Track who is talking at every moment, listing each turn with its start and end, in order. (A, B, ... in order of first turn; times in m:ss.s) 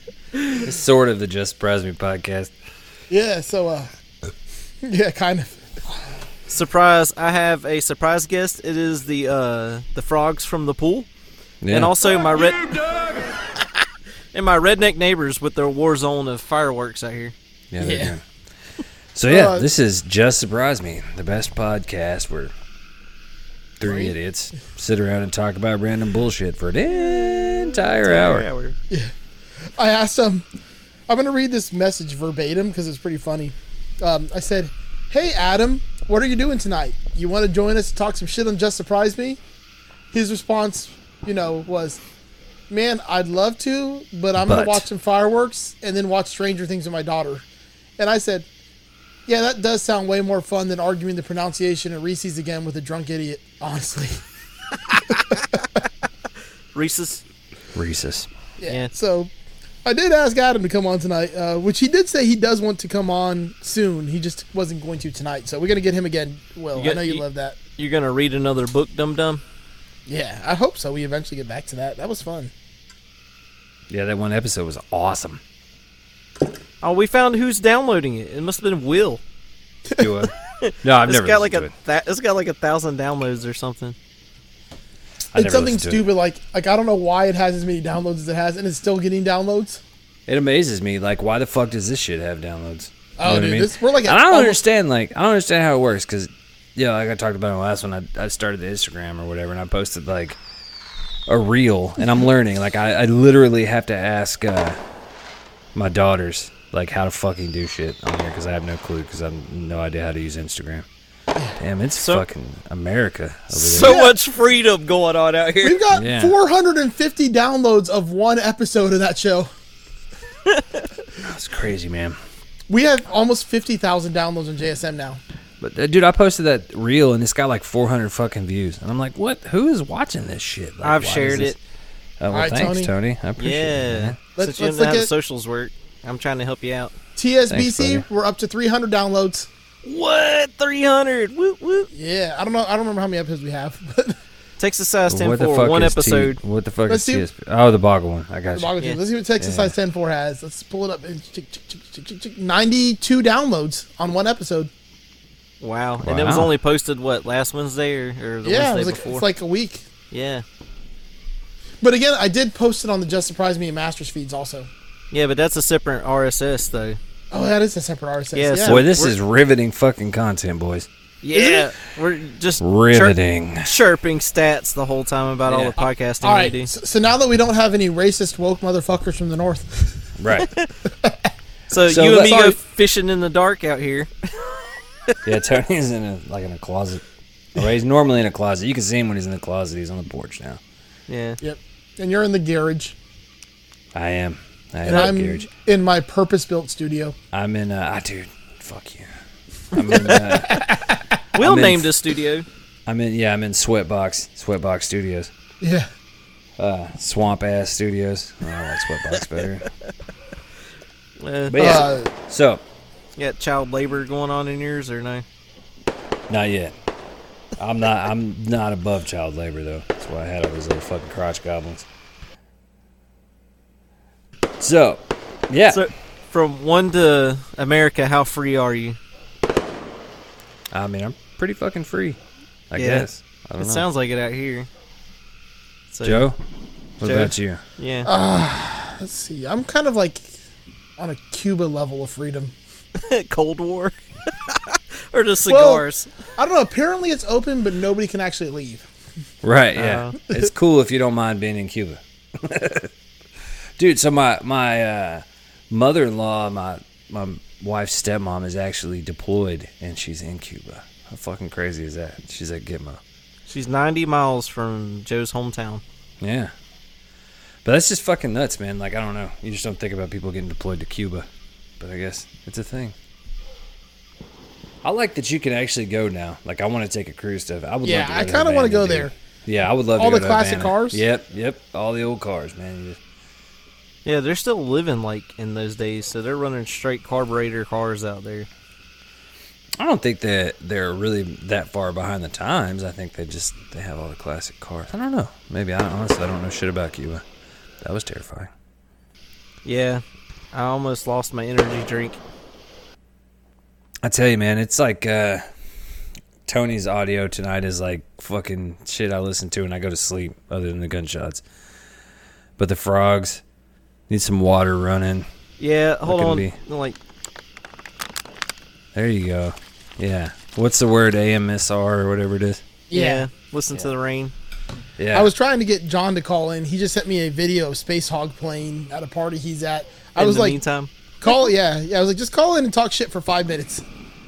0:00.6-0:02.5 A
0:03.1-0:03.9 B
0:04.8-0:05.6 B
0:06.5-0:11.1 C
0:11.6-0:12.2 A
0:11.7-0:12.8 C
0:14.3-0:17.3 C
0:17.7-0:18.2 A
0:17.8-0:18.1 B
0:19.1-0:22.5 A
0:19.3-0:19.6 B
0:23.8-0:28.5 A
0:23.8-0:24.1 B
0:26.9-0:28.8 C
0:29.8-0:30.4 B
0:31.1-0:39.4 B
0:40.1-0:42.0 B
0:42.7-0:47.4 B
0:44.3-0:44.9 A
0:48.0-0:48.5 B
0:49.3-0:54.2 B
0:55.1-0:55.4 B
0:56.7-0:57.2 C
0:57.8-0:58.3 A
0:58.6-0:59.3 B
0:59.8-1:07.6 B
1:06.8-1:07.2 C
1:07.8-1:09.4 C
1:10.1-1:12.5 B
1:13.9-1:15.4 A
1:16.8-1:19.2 C
1:20.0-1:20.3 A
1:20.6-1:24.0 C
1:20.8-1:21.7 A
1:25.3-1:26.0 A
1:25.3-1:29.8 B
1:30.3-1:40.4 A
1:33.2-1:34.6 B
1:41.3-1:44.8 A
1:45.8-1:50.8 A
1:51.6-1:54.1 A
1:52.0-1:52.2 C
1:53.5-1:55.8 C
1:53.7-1:54.2 B
1:55.6-1:59.5 B
1:55.9-1:56.4 A
2:00.5-2:00.8 C
2:01.2-2:02.2 A
2:02.7-2:05.2 B
2:05.6-2:11.6 A
2:10.8-2:11.6 C
2:12.2-2:14.2 A
2:12.3-2:12.9 B
2:13.4-2:16.9 C
2:14.4-2:15.1 B
2:17.2-2:19.5 B
2:17.5-2:18.0 A
2:19.8-2:21.9 C
2:21.9-2:24.2 B
2:24.6-2:26.4 C
2:25.1-2:28.7 A
2:26.9-2:27.2 B
2:28.5-2:34.7 B
2:29.4-2:29.8 A
2:35.6-2:39.2 C
2:36.0-2:36.5 A
2:38.4-2:39.8 B
2:40.1-2:40.4 C
2:41.8-2:44.7 B
2:45.1-2:47.0 C
2:47.3-2:48.8 B
2:48.3-2:49.2 C
2:48.6-2:50.9 A
2:51.2-2:56.7 C
2:51.3-2:51.7 B
2:52.6-2:53.7 A
2:55.5-2:55.8 A
2:55.8-3:00.1 B
3:00.2-3:00.5 A
3:01.7-3:04.1 C
3:01.9-3:02.3 A
3:01.9-3:02.6 B
3:05.2-3:07.0 A
3:07.6-3:10.6 A
3:11.1-3:11.4 C
3:11.4-3:13.0 B
3:13.9-3:15.5 A
3:14.8-3:17.2 B
3:17.3-3:19.1 A
3:19.7-3:20.7 A
3:19.8-3:21.0 B
3:21.3-3:22.5 C
3:21.4-3:21.9 A
3:22.8-3:25.3 A
3:25.6-3:25.9 B
3:26.6-3:29.7 A
3:31.2-3:31.8 C
3:31.5-3:32.6 A
3:31.6-3:32.1 B
3:33.2-3:35.2 C
3:36.3-3:36.7 A
3:37.6-3:41.8 A
3:44.6-3:45.8 A
3:45.7-3:49.0 C
3:50.7-3:52.2 A
3:52.7-3:53.8 A
3:52.8-3:53.0 C
3:53.6-3:54.7 C
3:55.9-3:56.3 C
3:56.0-3:56.4 A
3:57.0-3:57.6 A
3:57.0-3:58.1 C
3:58.0-4:00.3 B
4:01.0-4:02.5 B
4:03.0-4:06.1 C
4:05.5-4:05.8 B
4:06.4-4:08.8 B
4:09.4-4:12.9 A
4:09.7-4:10.1 C
4:13.8-4:23.0 A
4:23.5-4:25.8 C
4:26.2-4:26.5 A
4:27.6-4:31.3 A
4:31.8-4:32.9 A
4:34.8-4:43.0 A
4:37.8-4:39.1 B
4:40.0-4:41.0 B
4:44.0-4:48.5 C
4:49.8-4:57.2 A
4:57.8-4:58.5 A
4:59.6-5:02.2 C
5:04.0-5:05.4 A
5:06.4-5:11.4 A
5:12.6-5:13.4 A
5:14.1-5:15.3 A
5:15.6-5:17.0 C
5:16.0-5:16.6 A
5:18.9-5:22.6 A
5:22.9-5:23.2 B
5:22.9-5:24.3 C
5:25.0-5:25.3 A
5:25.1-5:30.6 B
5:30.2-5:30.9 C
5:31.2-5:33.8 B